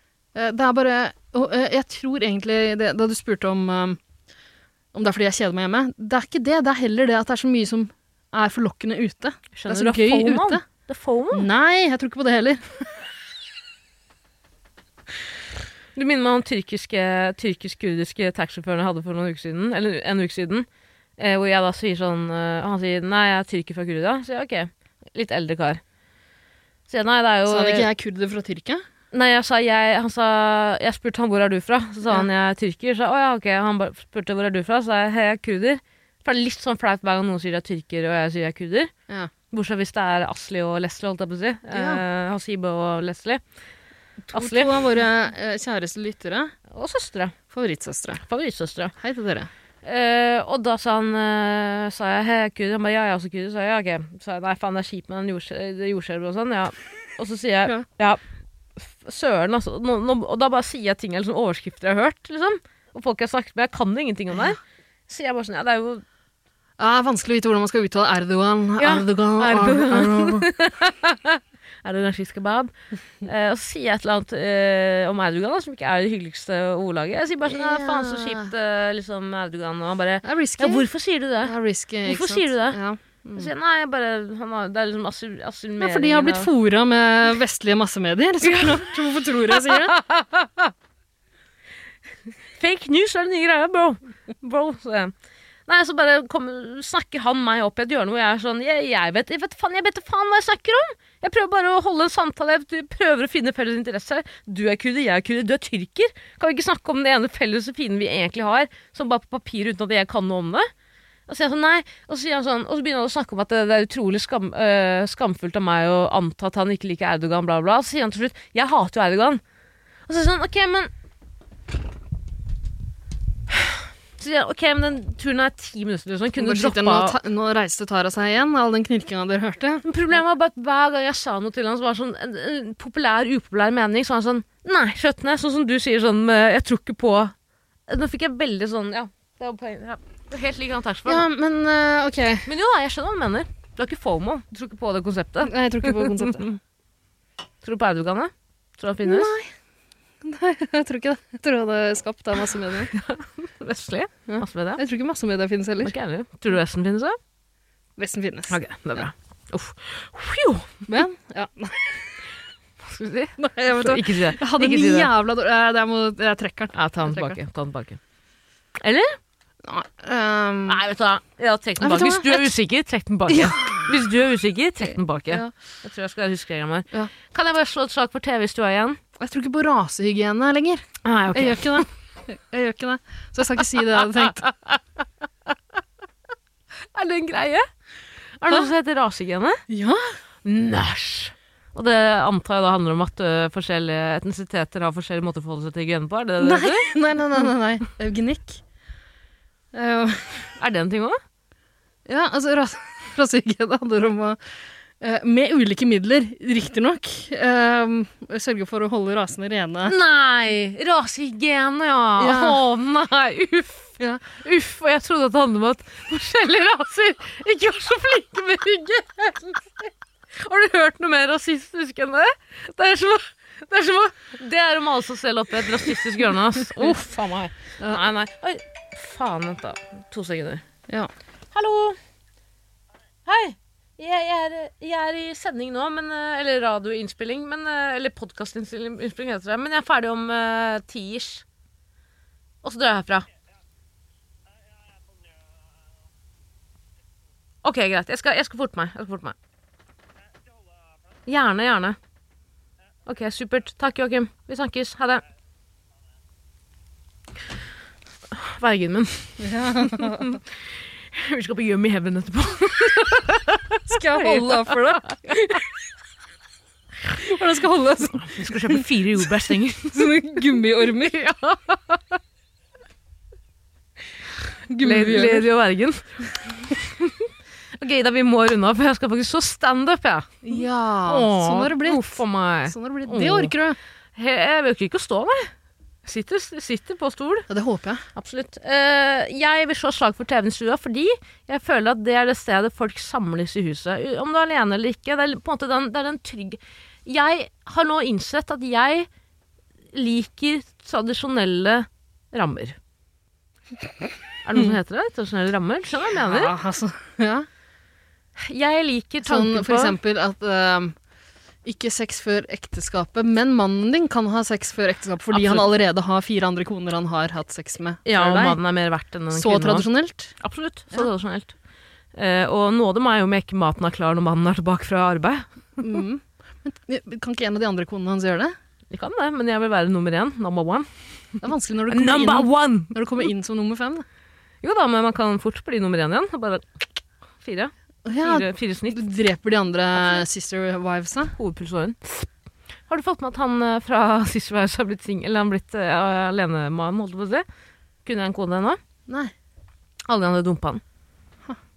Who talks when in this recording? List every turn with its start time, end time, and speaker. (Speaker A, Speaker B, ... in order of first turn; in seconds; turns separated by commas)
Speaker A: 0.3-4.0, Speaker A: 4.9-10.6, Speaker B: 9.5-11.5, Speaker A: 11.3-12.8, Speaker B: 15.9-20.7, Speaker B: 21.2-25.8, Speaker B: 26.9-27.9, Speaker A: 27.5-28.8, Speaker B: 29.1-38.9, Speaker B: 39.5-43.4, Speaker A: 41.7-42.0, Speaker A: 44.3-46.5, Speaker B: 44.3-44.8, Speaker B: 46.7-47.4, Speaker A: 47.5-48.2, Speaker B: 48.2-48.9, Speaker A: 49.0-49.5, Speaker B: 49.8-58.2, Speaker B: 58.8-66.0, Speaker A: 66.8-70.5, Speaker B: 68.8-72.7, Speaker B: 73.2-82.8, Speaker A: 77.5-78.5, Speaker A: 80.2-80.9, Speaker A: 81.4-83.5, Speaker B: 83.3-86.5, Speaker A: 85.8-90.0, Speaker B: 88.4-88.9, Speaker B: 89.5-90.7, Speaker B: 92.6-95.1, Speaker B: 95.7-110.7, Speaker B: 111.3-119.4, Speaker B: 120.1-120.9, Speaker B: 123.5-127.2, Speaker A: 126.4-129.8, Speaker B: 129.8-137.3, Speaker B: 137.9-141.2, Speaker A: 141.1-142.5, Speaker B: 142.4-146.6, Speaker A: 145.4-146.5, Speaker B: 147.6-149.3, Speaker A: 149.0-149.5, Speaker A: 150.2-152.9, Speaker B: 152.9-154.8, Speaker A: 154.3-155.9, Speaker B: 155.8-157.2, Speaker A: 158.0-159.0, Speaker B: 158.5-160.8, Speaker A: 160.9-162.0, Speaker B: 162.8-165.1, Speaker A: 163.4-167.4, Speaker B: 166.7-168.0, Speaker B: 168.8-169.2, Speaker A: 169.6-170.8, Speaker B: 170.7-179.0, Speaker A: 171.8-172.5, Speaker A: 173.3-173.9, Speaker A: 179.2-184.4, Speaker B: 181.0-181.8, Speaker B: 184.4-184.8, Speaker B: 186.9-187.7, Speaker B: 188.4-189.6, Speaker A: 189.7-190.1, Speaker B: 190.4-196.9, Speaker A: 196.4-198.6, Speaker A: 199.7-200.4, Speaker B: 200.6-201.2, Speaker A: 202.1-204.4, Speaker A: 205.0-209.9, Speaker B: 209.8-230.6, Speaker A: 212.2-212.6, Speaker B: 231.5-232.0, Speaker B: 233.2-241.4, Speaker B: 242.6-243.3, Speaker B: 247.6-249.3, Speaker B: 251.2-252.0, Speaker B: 253.1-255.2, Speaker B: 258.3-260.4, Speaker A: 259.4-260.3, Speaker B: 261.1-264.7, Speaker A: 263.9-265.6, Speaker A: 267.1-268.9, Speaker B: 268.2-270.1, Speaker A: 269.9-271.3, Speaker B: 271.2-272.0, Speaker A: 274.7-275.5, Speaker B: 274.8-280.4, Speaker A: 280.4-283.8, Speaker B: 281.1-283.5, Speaker B: 284.1-285.5, Speaker B: 286.0-287.5, Speaker A: 287.5-288.0, Speaker B: 288.1-299.1, Speaker B: 299.9-302.8, Speaker B: 304.4-306.5, Speaker A: 306.1-307.5, Speaker B: 308.4-310.0, Speaker A: 309.2-310.9, Speaker A: 311.6-318.6, Speaker B: 315.3-315.7, Speaker B: 318.0-319.9, Speaker A: 319.3-320.3, Speaker B: 320.4-321.5, Speaker B: 322.1-325.9, Speaker A: 325.8-328.5, Speaker B: 328.9-330.9, Speaker A: 331.4-334.0, Speaker B: 331.9-332.9, Speaker B: 334.6-336.8, Speaker B: 337.4-339.0, Speaker A: 338.0-341.4, Speaker B: 341.4-342.3, Speaker B: 342.9-347.4, Speaker B: 348.0-348.8, Speaker A: 349.1-349.3, Speaker B: 350.1-350.8